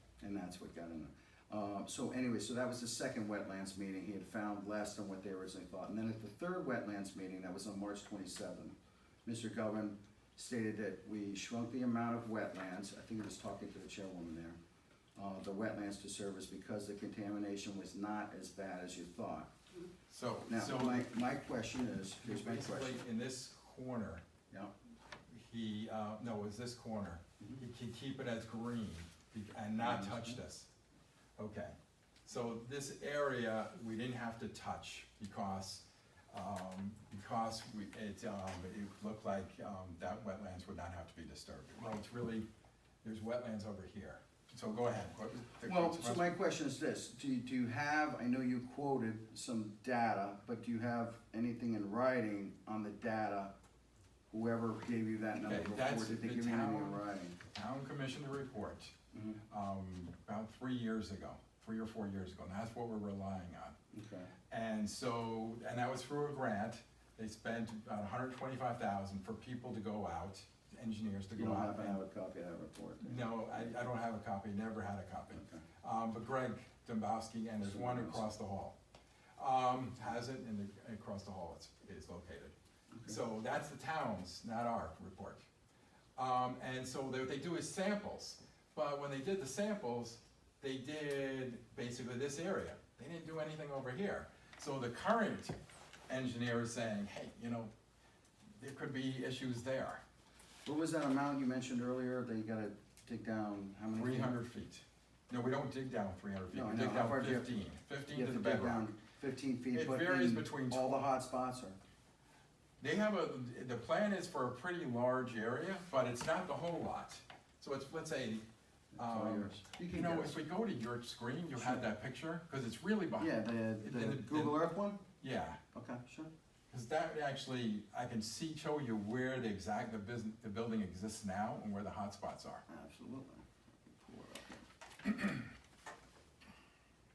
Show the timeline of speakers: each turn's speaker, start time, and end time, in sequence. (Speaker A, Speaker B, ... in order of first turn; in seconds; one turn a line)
Speaker A: 0.2-14.6
Speaker A: 15.2-19.5
Speaker B: 20.1-21.1
Speaker A: 20.5-23.0
Speaker B: 22.2-24.2
Speaker B: 25.3-30.7
Speaker A: 29.8-30.4
Speaker B: 31.4-31.8
Speaker B: 32.3-42.5
Speaker B: 43.0-46.3
Speaker A: 45.6-53.5
Speaker A: 54.3-57.4
Speaker B: 55.5-57.0
Speaker B: 57.5-58.9
Speaker A: 59.1-59.4
Speaker B: 59.5-63.8
Speaker A: 63.9-64.3
Speaker B: 64.5-72.0
Speaker A: 71.4-73.3
Speaker B: 73.0-78.8
Speaker A: 75.3-75.6
Speaker A: 77.6-78.2
Speaker B: 79.4-82.5
Speaker A: 82.9-83.2
Speaker B: 83.0-85.5
Speaker B: 86.2-95.6
Speaker B: 96.1-97.7
Speaker B: 98.6-100.0
Speaker A: 100.7-104.3
Speaker B: 104.0-108.9
Speaker A: 106.5-111.8
Speaker B: 109.7-111.0
Speaker B: 112.8-118.5
Speaker A: 119.0-120.4
Speaker B: 119.0-124.7
Speaker A: 121.6-121.9
Speaker A: 123.2-125.0
Speaker B: 125.2-125.6
Speaker A: 125.7-126.3
Speaker B: 126.7-132.7
Speaker A: 132.7-134.7